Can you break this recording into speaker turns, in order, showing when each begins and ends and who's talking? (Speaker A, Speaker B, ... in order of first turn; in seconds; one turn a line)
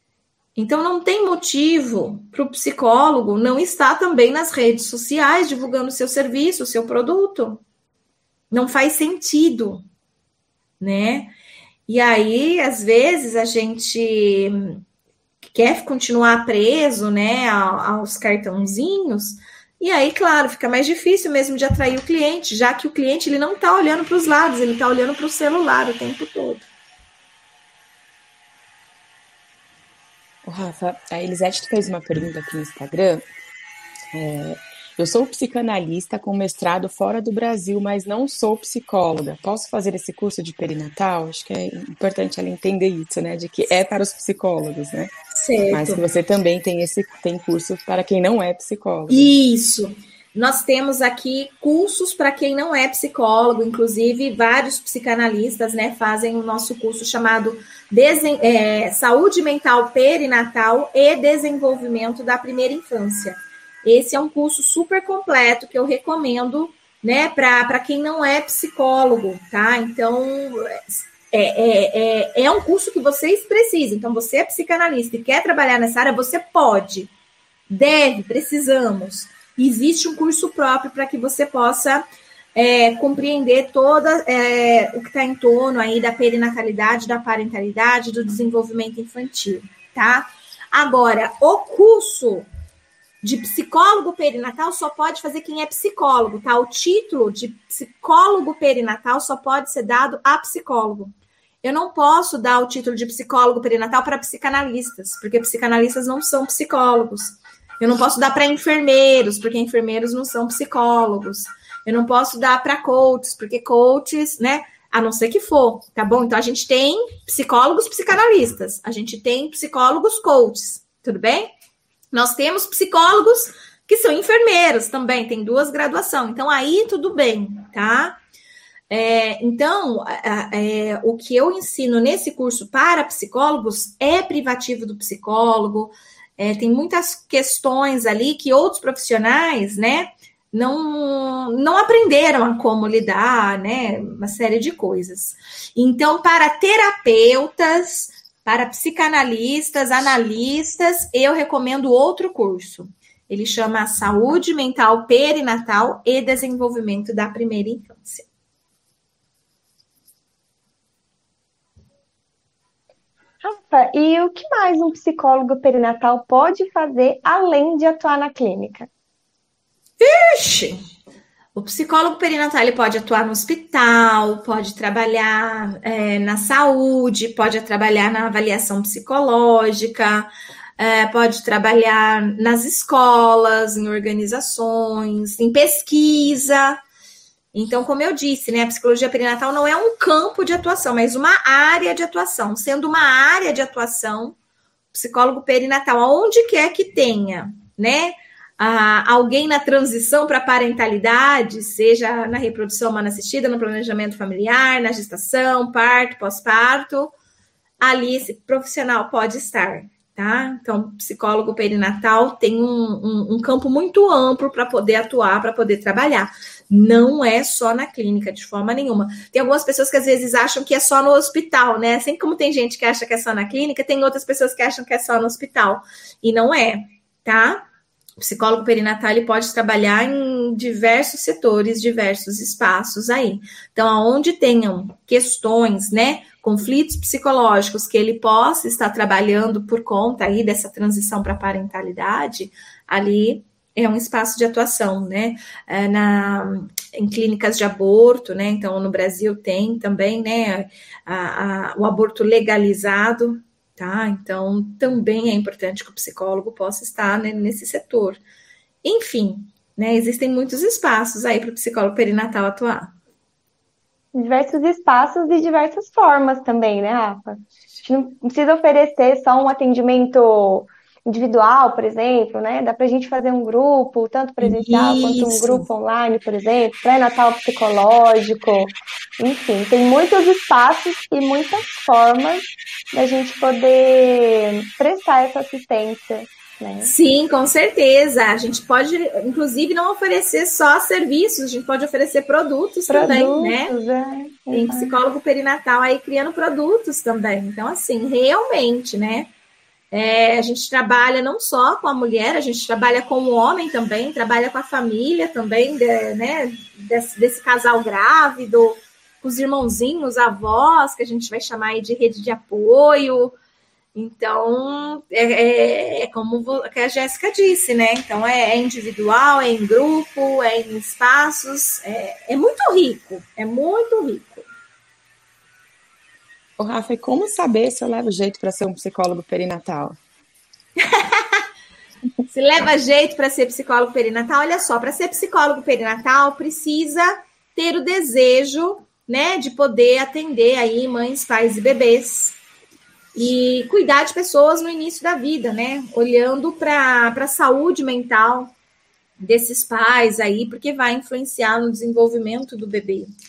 Speaker A: 0.6-7.6
Speaker A: 8.5-9.8
Speaker A: 10.8-11.3
Speaker A: 11.9-14.8
Speaker A: 15.5-26.7
Speaker B: 30.4-33.2
Speaker B: 34.1-45.1
Speaker A: 45.4-46.0
Speaker B: 45.7-49.3
Speaker A: 49.1-77.1
Speaker A: 77.7-82.0
Speaker A: 82.5-92.5
Speaker A: 93.2-101.1
Speaker A: 101.6-121.5
Speaker A: 122.1-128.2
Speaker A: 128.9-158.3
Speaker C: 163.4-168.9
Speaker A: 170.0-170.8
Speaker A: 171.6-186.8
Speaker A: 187.5-194.4
Speaker A: 194.9-207.1
Speaker A: 207.8-227.7
Speaker A: 228.2-258.2
Speaker A: 258.8-262.9
Speaker C: 264.1-286.9
Speaker A: 274.4-275.7
Speaker A: 286.8-293.7
Speaker C: 292.9-295.0
Speaker A: 294.5-299.3
Speaker A: 299.9-313.4
Speaker A: 313.9-324.5
Speaker B: 326.6-330.0
Speaker A: 330.8-331.4
Speaker A: 332.3-342.4
Speaker A: 343.1-348.5
Speaker A: 349.2-353.1